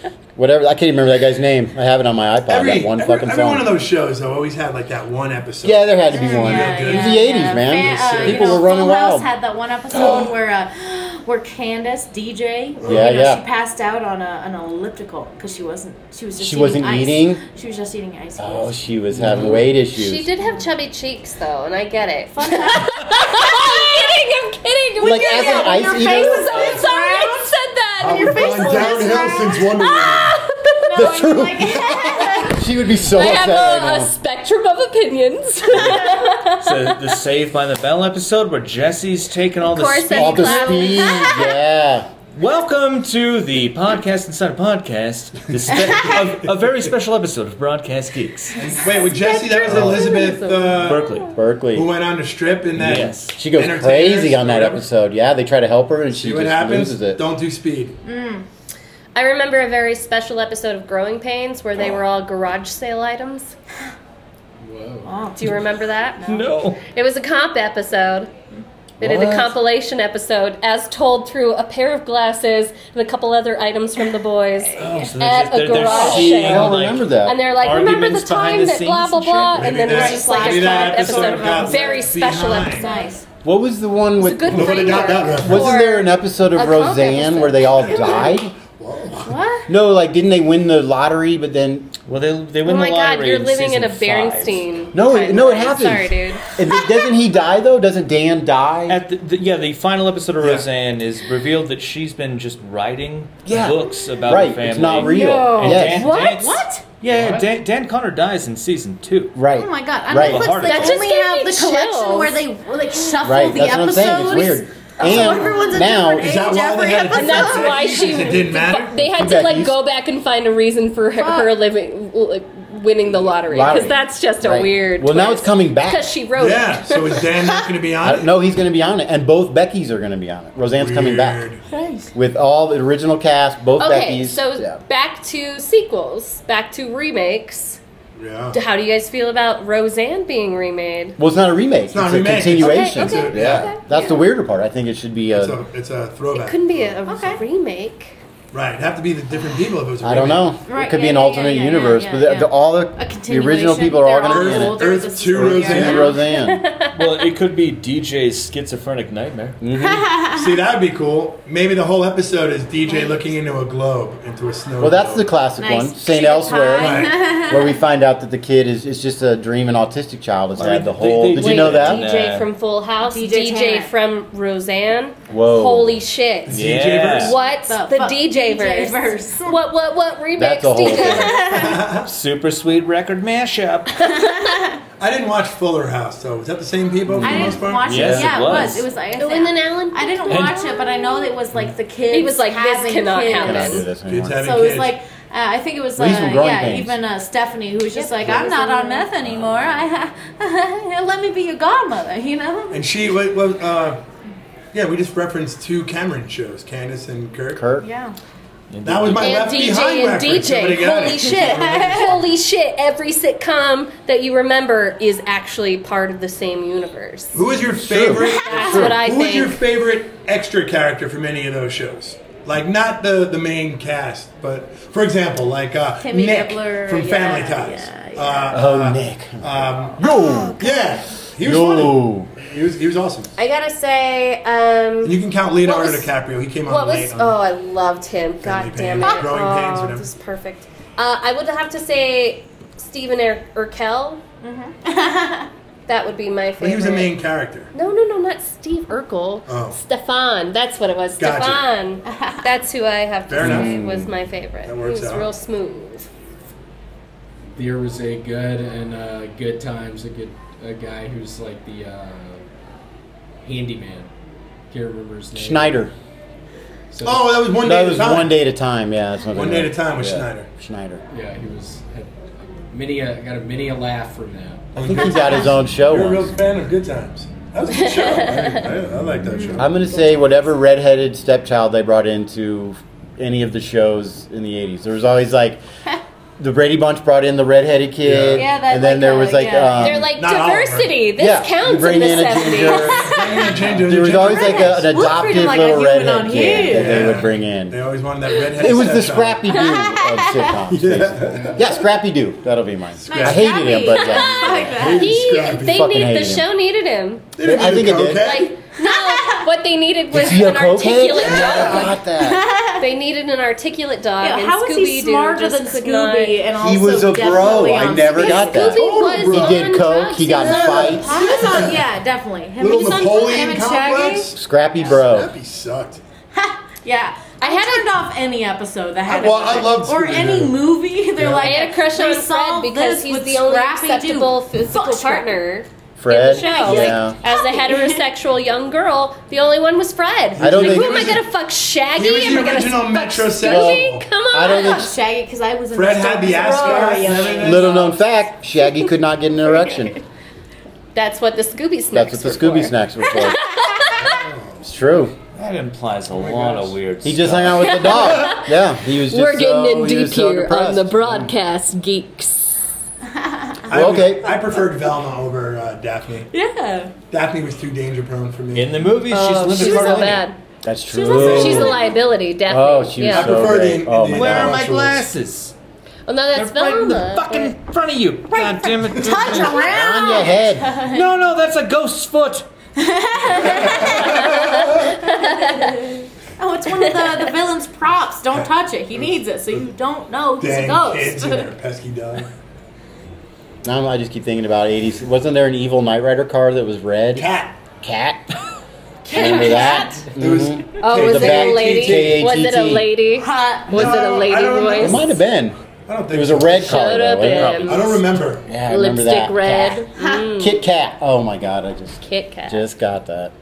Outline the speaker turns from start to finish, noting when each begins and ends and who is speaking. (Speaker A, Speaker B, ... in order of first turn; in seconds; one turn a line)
Speaker A: 0.3-3.7
Speaker B: 2.5-8.7
Speaker A: 5.6-9.3
Speaker C: 6.1-18.8
Speaker A: 9.9-10.3
Speaker B: 12.8-13.2
Speaker A: 12.8-13.4
Speaker A: 16.4-17.4
Speaker A: 18.4-20.3
Speaker D: 19.1-19.6
Speaker E: 19.9-30.8
Speaker C: 22.3-24.1
Speaker A: 25.0-26.7
Speaker C: 25.3-27.5
Speaker B: 28.0-30.4
Speaker C: 28.1-29.6
Speaker C: 30.8-32.6
Speaker A: 30.9-34.1
Speaker E: 33.1-36.9
Speaker C: 35.8-36.6
Speaker F: 36.6-40.6
Speaker E: 39.6-41.6
Speaker A: 40.1-42.1
Speaker C: 40.7-41.0
Speaker F: 42.3-48.6
Speaker B: 48.6-51.1
Speaker E: 49.0-50.9
Speaker A: 49.7-50.0
Speaker F: 50.8-51.3
Speaker A: 51.3-51.9
Speaker B: 51.7-54.8
Speaker F: 52.8-53.4
Speaker A: 52.9-57.2
Speaker B: 56.1-58.0
Speaker C: 58.0-58.4
Speaker E: 59.1-63.5
Speaker D: 64.6-65.1
Speaker C: 65.0-65.6
Speaker E: 65.3-66.3
Speaker F: 66.2-66.8
Speaker E: 66.9-68.3
Speaker A: 69.0-69.5
Speaker E: 69.0-83.2
Speaker C: 74.8-75.1
Speaker F: 74.8-79.7
Speaker A: 75.8-77.4
Speaker B: 79.5-82.9
Speaker C: 79.8-82.0
Speaker C: 82.8-83.2
Speaker A: 83.4-88.5
Speaker E: 84.2-88.2
Speaker B: 84.5-85.8
Speaker C: 87.8-88.2
Speaker B: 88.0-89.3
Speaker C: 89.2-89.7
Speaker A: 89.7-91.9
Speaker F: 92.1-94.7
Speaker E: 92.6-96.4
Speaker A: 94.9-99.0
Speaker F: 98.9-109.3
Speaker B: 100.4-100.6
Speaker A: 103.5-106.1
Speaker C: 105.0-106.8
Speaker E: 105.1-106.4
Speaker A: 109.3-110.5
Speaker C: 109.5-118.4
Speaker F: 110.1-111.0
Speaker E: 110.6-112.4
Speaker A: 113.2-116.3
Speaker B: 116.2-118.9
Speaker E: 117.1-127.3
Speaker A: 118.9-119.8
Speaker C: 121.2-121.5
Speaker A: 123.5-126.1
Speaker B: 126.4-128.3
Speaker A: 128.0-131.4
Speaker B: 130.8-131.6
Speaker A: 132.1-134.8
Speaker E: 133.8-137.8
Speaker B: 138.2-138.6
Speaker E: 138.5-141.2
Speaker A: 141.2-145.6
Speaker B: 141.9-143.7
Speaker E: 142.6-144.2
Speaker C: 143.8-144.1
Speaker B: 145.3-147.0
Speaker E: 146.3-148.2
Speaker C: 147.0-147.4
Speaker B: 148.5-150.6
Speaker A: 150.0-156.6
Speaker C: 150.6-156.2
Speaker B: 154.3-156.1
Speaker E: 155.8-157.2
Speaker F: 156.9-159.6
Speaker A: 159.6-160.1
Speaker C: 159.8-160.4
Speaker B: 160.3-165.4
Speaker A: 164.8-172.1
Speaker C: 165.6-167.8
Speaker E: 166.3-166.7
Speaker B: 166.8-167.2
Speaker F: 170.6-172.5
Speaker E: 171.3-181.7
Speaker C: 173.0-173.9
Speaker A: 175.3-176.0
Speaker B: 176.4-177.4
Speaker F: 176.5-177.3
Speaker C: 177.4-179.6
Speaker A: 180.4-181.6
Speaker C: 180.9-181.8
Speaker B: 181.5-182.1
Speaker F: 182.0-184.1
Speaker E: 184.0-184.6
Speaker C: 184.1-184.8
Speaker B: 185.0-188.1
Speaker A: 187.1-188.7
Speaker C: 187.2-202.8
Speaker F: 187.8-188.8
Speaker E: 189.2-191.3
Speaker F: 190.3-190.6
Speaker E: 192.1-193.8
Speaker A: 193.3-194.6
Speaker B: 194.0-195.0
Speaker A: 195.9-196.9
Speaker E: 197.9-199.1
Speaker F: 199.3-199.7
Speaker B: 202.7-204.0
Speaker B: 204.7-207.7
Speaker A: 207.5-207.8
Speaker C: 207.8-208.2
Speaker F: 208.7-209.5
Speaker B: 208.8-212.3
Speaker E: 209.2-217.4
Speaker C: 210.8-212.1
Speaker B: 217.3-233.3
Speaker A: 217.8-218.9
Speaker C: 218.2-218.8
Speaker E: 218.3-219.6
Speaker C: 226.0-228.6
Speaker A: 228.5-230.7
Speaker E: 230.1-230.7
Speaker A: 231.4-232.3
Speaker E: 233.4-236.1
Speaker B: 235.0-237.3
Speaker E: 236.7-244.2
Speaker B: 238.4-240.1
Speaker C: 244.4-245.5
Speaker E: 245.9-247.1
Speaker B: 246.6-247.7
Speaker E: 247.7-256.1
Speaker B: 249.5-249.8
Speaker B: 251.2-251.7
Speaker C: 252.1-252.4
Speaker B: 253.3-253.8
Speaker A: 253.4-254.1
Speaker B: 254.6-255.3
Speaker D: 257.5-262.4
Speaker D: 263.4-264.1
Speaker D: 264.7-265.9
Speaker A: 265.3-265.9
Speaker D: 266.9-267.6
Speaker B: 267.0-268.4
Speaker A: 267.6-271.0
Speaker B: 269.3-270.5
Speaker D: 271.1-274.7
Speaker B: 274.7-279.9
Speaker A: 274.8-276.4
Speaker E: 277.8-278.6
Speaker C: 279.2-280.0
Speaker A: 279.5-285.6
Speaker A: 286.4-290.1
Speaker B: 288.0-288.5
Speaker C: 288.4-290.0
Speaker E: 289.8-293.5
Speaker B: 290.0-291.0
Speaker A: 291.2-297.8
Speaker B: 293.0-295.3
Speaker C: 294.2-297.1
Speaker B: 296.6-299.5
Speaker A: 298.6-306.4
Speaker C: 299.5-300.6
Speaker B: 300.7-301.6
Speaker B: 303.0-303.6
Speaker C: 303.0-305.4
Speaker E: 303.9-307.3
Speaker B: 304.6-305.9
Speaker B: 307.4-308.6
Speaker A: 307.4-308.5
Speaker E: 307.9-312.0
Speaker C: 308.8-309.5
Speaker A: 310.1-312.4
Speaker B: 311.2-311.9
Speaker C: 312.2-312.9
Speaker E: 312.8-316.4
Speaker C: 314.2-318.8
Speaker A: 316.6-321.4
Speaker E: 318.1-321.0
Speaker B: 318.6-319.7
Speaker C: 320.3-324.3
Speaker B: 320.5-321.8
Speaker B: 322.6-326.0
Speaker A: 324.3-325.3
Speaker C: 326.3-335.4
Speaker E: 327.4-327.9
Speaker B: 329.1-330.6
Speaker B: 331.2-331.5
Speaker E: 331.4-344.9
Speaker A: 336.0-337.1
Speaker C: 336.1-338.0
Speaker B: 340.4-341.3
Speaker A: 340.4-341.2
Speaker B: 341.9-344.1
Speaker A: 343.4-344.9
Speaker C: 344.4-347.7
Speaker B: 345.7-347.9
Speaker F: 346.9-347.9
Speaker A: 347.4-349.9
Speaker C: 349.4-350.0
Speaker E: 350.9-354.2
Speaker A: 351.9-353.4
Speaker B: 353.8-354.7
Speaker A: 354.6-355.1
Speaker F: 355.3-357.8
Speaker B: 356.1-356.7
Speaker A: 357.0-361.3
Speaker E: 357.6-362.6
Speaker C: 363.2-363.6
Speaker B: 363.7-366.3
Speaker A: 363.7-364.5
Speaker C: 364.4-364.6
Speaker C: 366.3-366.9
Speaker B: 367.1-368.9
Speaker F: 368.5-370.2
Speaker E: 369.1-370.4
Speaker C: 369.6-370.2
Speaker A: 370.6-371.9
Speaker C: 370.9-371.8
Speaker B: 371.1-371.8
Speaker E: 371.1-373.6
Speaker A: 372.5-374.6
Speaker B: 373.0-375.1
Speaker F: 374.1-375.5
Speaker E: 376.1-377.5
Speaker F: 376.3-379.7
Speaker C: 378.3-381.1
Speaker A: 379.4-380.7
Speaker F: 380.9-382.5
Speaker C: 382.8-384.4
Speaker B: 383.5-384.9
Speaker E: 384.1-385.7
Speaker C: 385.0-391.5
Speaker B: 390.4-392.3
Speaker A: 393.6-397.3
Speaker B: 397.1-397.6
Speaker A: 397.8-398.3
Speaker C: 399.0-400.1
Speaker A: 399.1-402.9
Speaker E: 399.1-400.0
Speaker B: 400.2-402.3
Speaker E: 400.8-405.0
Speaker C: 403.1-404.2
Speaker B: 403.7-405.1
Speaker A: 404.7-405.6
Speaker B: 405.9-408.5
Speaker A: 406.1-413.3
Speaker E: 406.6-408.0
Speaker E: 408.7-410.6
Speaker E: 412.0-412.7